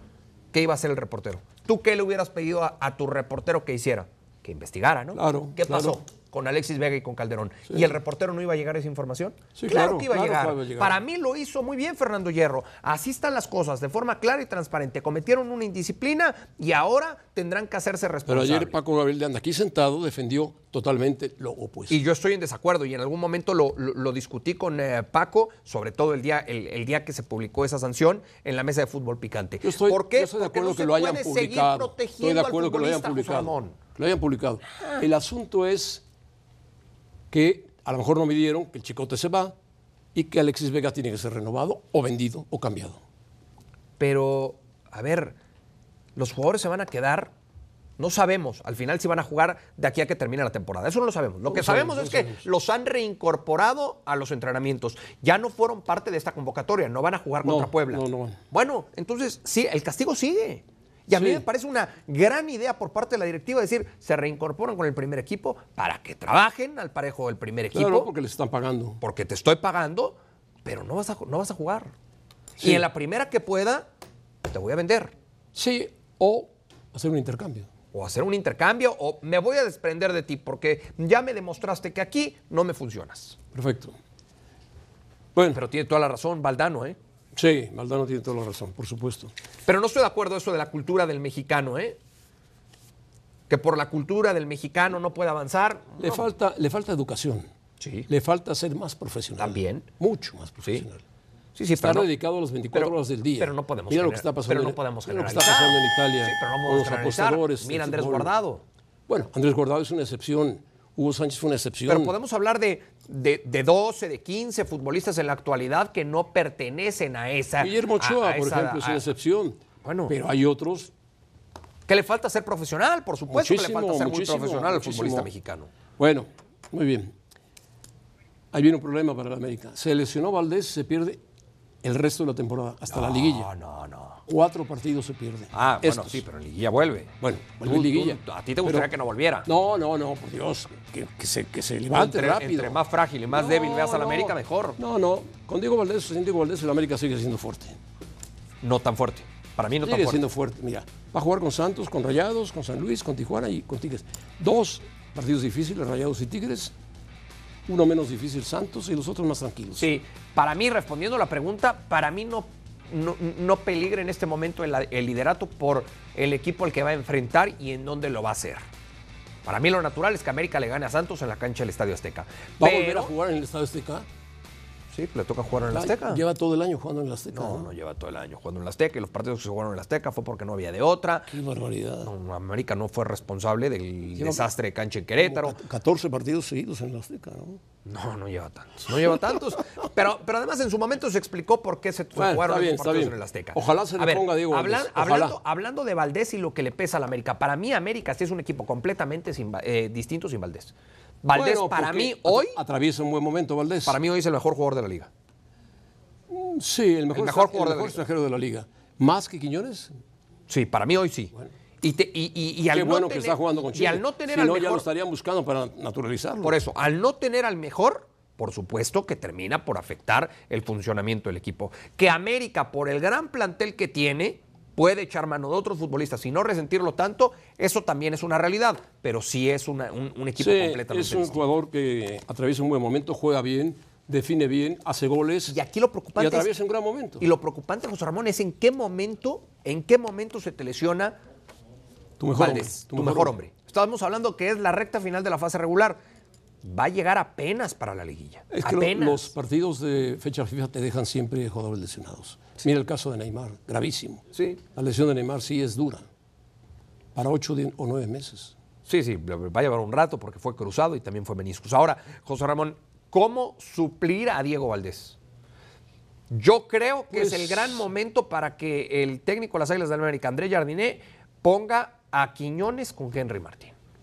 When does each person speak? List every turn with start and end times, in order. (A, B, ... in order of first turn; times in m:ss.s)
0:00.5-0:18.8 A
0:05.2-0:06.0 B
0:09.6-0:11.0 B
0:18.3-0:22.0 B
0:21.9-0:33.8 A
0:29.6-0:36.0 B
0:37.3-0:39.6 B
0:40.1-0:43.0 B
0:44.0-0:45.4 A
0:46.2-0:47.3 A
0:48.0-1:08.1 A
0:51.5-0:52.5 B
0:57.4-0:58.4 B
1:01.1-1:01.4 B
1:07.7-1:09.0 B
1:09.0-1:11.9 A
1:12.6-1:12.8 B
1:12.6-1:13.9 A
1:14.5-1:15.1 A
1:15.5-1:17.7 B
1:17.9-1:23.4 A
1:23.5-1:24.0 B
1:25.4-1:25.6 B
1:25.5-1:27.0 A
1:27.4-1:29.3 B
1:29.7-1:32.0 A
1:33.5-1:36.3 A
1:36.0-1:37.5 B
1:37.8-1:38.1 A
1:38.1-1:41.0 B
1:39.4-1:39.9 A
1:40.6-1:40.9 A
1:41.6-1:42.1 A
1:41.8-1:48.3 B
1:42.7-1:48.6 A
1:49.1-1:52.2 B
1:51.9-1:59.0 A
1:57.6-2:00.9 B
1:59.8-2:00.2 A
2:01.9-2:05.7 A
2:03.3-2:05.3 B
2:06.0-2:07.1 B
2:08.5-2:11.2 B
2:11.8-2:13.5 B
2:12.9-2:14.2 A
2:14.3-2:16.2 B
2:15.5-2:19.5 A
2:17.2-2:18.9 B
2:19.5-2:22.8 B
2:21.9-2:24.8 A
2:23.3-2:27.8 B
2:28.6-2:30.2 A
2:29.8-2:36.7 B
2:37.7-2:39.9 B
2:39.8-2:48.6 A
2:49.4-2:53.1 A
2:52.6-2:54.1 B
2:54.9-2:56.2 A
2:55.7-2:57.7 B
2:57.3-3:01.3 A
3:01.3-3:02.1 B
3:02.0-3:05.6 A
3:04.2-3:04.5 B
3:05.2-3:07.6 B
3:07.8-3:22.6 A
3:12.2-3:15.4 B
3:21.3-3:24.0 B
3:23.8-3:25.1 A
3:26.3-3:29.9 B
3:27.1-3:28.0 A
3:30.5-3:34.8 A
3:32.7-3:36.6 B
3:36.4-3:51.4 A
3:50.4-3:55.6 B
3:55.5-3:56.5 A
3:56.2-3:57.2 B
3:57.2-4:01.2 A
4:02.2-4:03.3 B
4:02.4-4:06.0 A
4:06.6-4:09.3 A
4:08.5-4:16.0 B
4:14.3-4:14.6 A
4:17.2-4:18.5 B
4:18.9-4:25.2 A
4:26.3-4:33.8 A
4:27.1-4:27.8 B